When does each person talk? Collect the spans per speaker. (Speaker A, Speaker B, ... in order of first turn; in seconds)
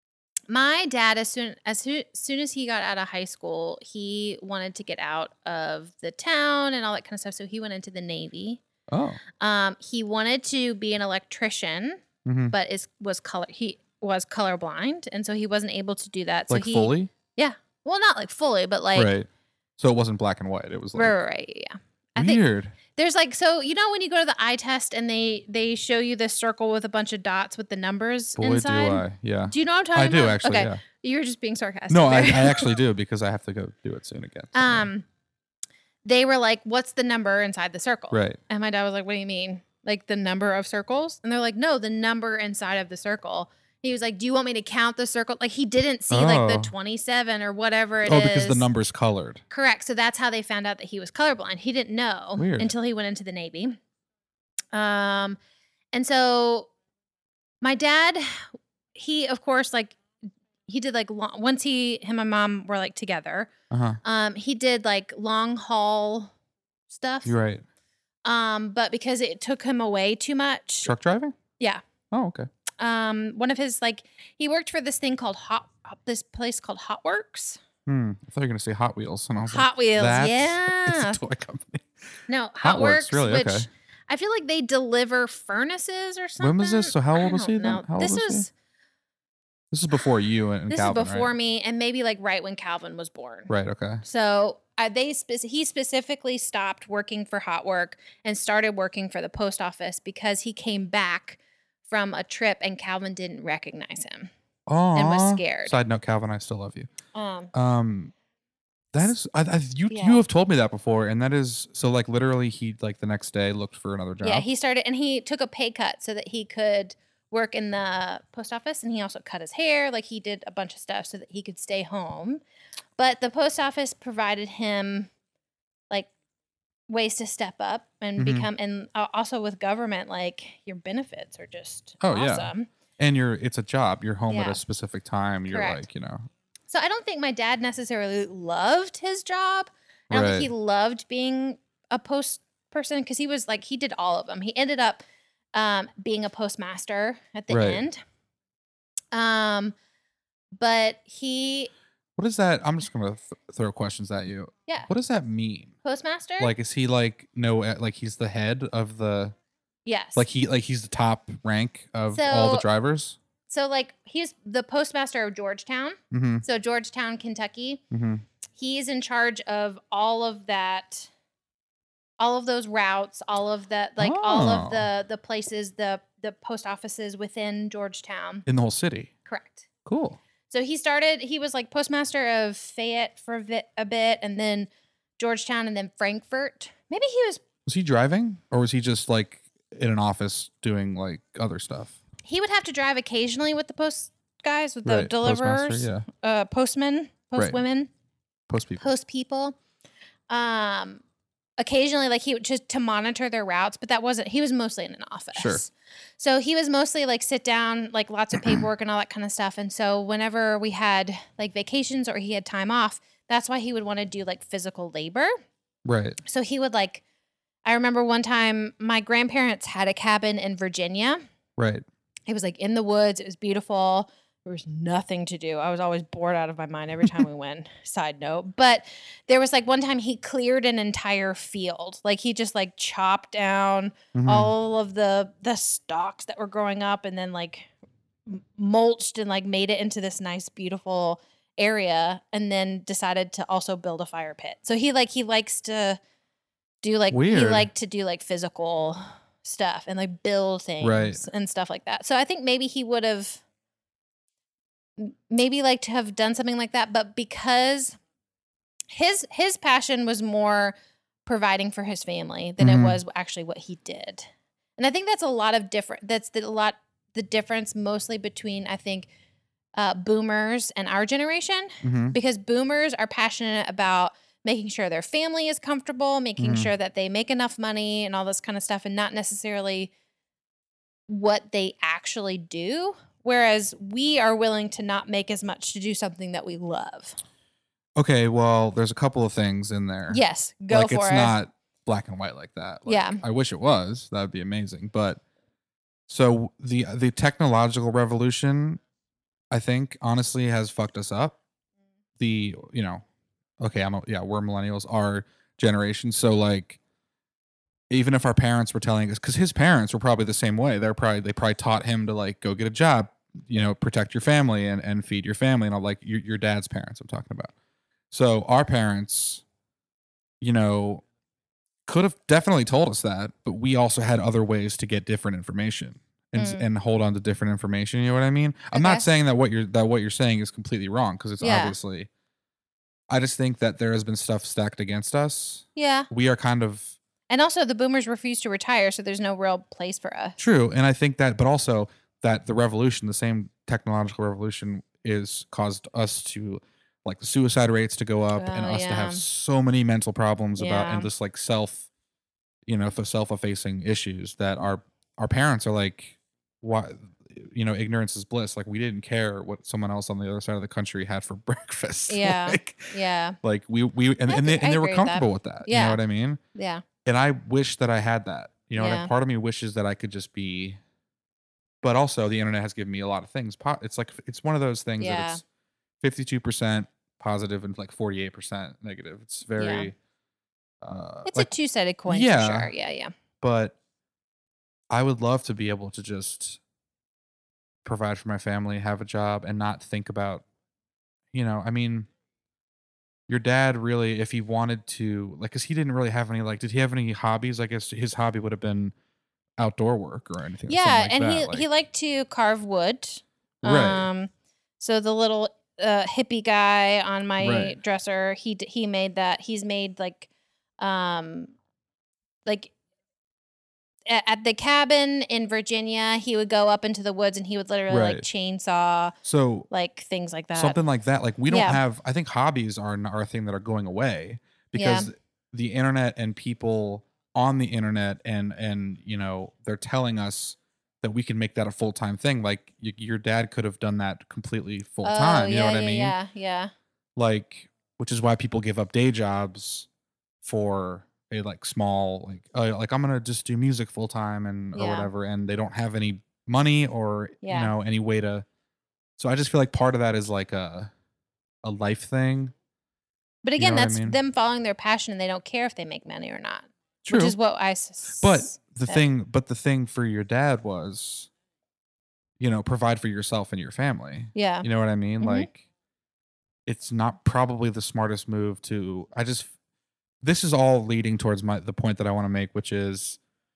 Speaker A: 0.5-8.6, 9.4-19.1, 20.9-22.4, 22.9-32.8, 34.5-35.1, 36.0-48.7, 49.5-53.8, 54.7-55.4, 55.9-56.7, 57.6-60.0, 60.7-63.5, 64.0-66.3, 66.9-67.3, 68.2-70.9, 72.8-77.6, 79.5-81.2, 82.3-88.5, 90.7-93.5, 94.0-104.3, 105.0-105.8, 107.1-107.5, 109.9-110.2, 114.2-122.4, 123.0-125.1, 126.9-132.7, 134.3-134.6, 135.5-135.8, 136.7-145.0, 145.5-148.0, 149.1-149.8, 150.6-151.7, 155.8-156.5, 159.9-160.3, 162.1-162.7, 163.5-167.8, 168.6-171.1, 172.2-178.5, 179.3-179.7, 180.5-187.4, 192.2-197.9, 198.8-199.6, 200.3-201.0, 201.6-215.3, 216.2-217.0, 217.7-221.2, 222.3-237.7, 238.3-246.0, 246.8-253.4, 255.0-258.0, 258.9-260.8, 261.3-269.1, 269.8-279.9, 281.1-287.2, 290.1-291.4, 292.9-293.2, 326.4-326.6, 328.7-329.1, 331.4-331.8, 335.8-336.1, 337.3-340.4, 348.4-349.2, 350.6-351.1, 362.1-363.4, 364.3-366.0, 366.6-366.8, 368.8-369.1, 375.0-375.4, 379.6-379.9, 381.3-383.1, 400.7-410.3, 410.8-411.5, 412.5-412.7, 414.1-419.1, 419.7-420.8, 421.5-421.8, 424.8-425.1, 435.0-436.7, 444.7-445.1, 447.4-447.7, 453.4-459.0, 464.4-464.7, 465.2-465.5
Speaker B: 8.9-9.2, 12.2-12.6, 16.5-17.1, 18.9-21.2, 22.2-22.8, 28.4-30.8, 31.9-34.9, 38.1-38.4, 46.1-46.7, 48.0-49.4, 52.4-52.7, 63.7-64.0, 67.2-67.6, 70.8-71.4, 72.1-72.5, 77.9-81.9, 82.6-83.7, 86.4-88.5, 89.7-91.3, 93.5-94.0, 104.7-106.9, 107.5-108.1, 108.9-114.5, 128.2-128.5, 132.0-136.2, 140.1-140.5, 147.5-147.8, 152.2-155.7, 156.4-159.3, 160.2-163.2, 166.1-166.4, 167.9-168.2, 174.0-174.9, 178.5-179.1, 179.9-180.2, 187.7-192.0, 194.8-196.1, 197.4-197.6, 198.5-198.9, 205.3-205.6, 208.4-208.6, 215.8-216.2, 221.6-221.8, 234.2-234.5, 247.1-247.7, 250.8-251.2, 262.6-263.0, 271.8-272.2, 276.4-276.7, 288.0-295.2, 296.1-298.8, 299.5-301.4, 302.2-303.0, 303.6-306.8, 307.9-317.5, 318.1-319.4, 320.4-321.0, 321.9-332.1, 333.1-336.9, 340.4-351.9, 352.7-362.9, 363.4-366.4, 367.1-370.8, 371.8-375.4, 376.0-379.9, 380.8-381.5, 382.1-382.7, 383.4-383.8, 384.9-386.6, 387.9-390.4, 391.3-392.1, 393.3-398.9, 399.6-401.7, 403.6-404.1, 407.4-407.8, 417.9-418.3, 419.2-419.7, 420.5-436.2, 437.2-439.9, 440.4-448.4, 449.2-450.9, 451.6-452.5, 453.6-454.2, 457.0-457.4, 458.2-461.3, 462.4-465.7, 466.7-469.5, 470.2-473.2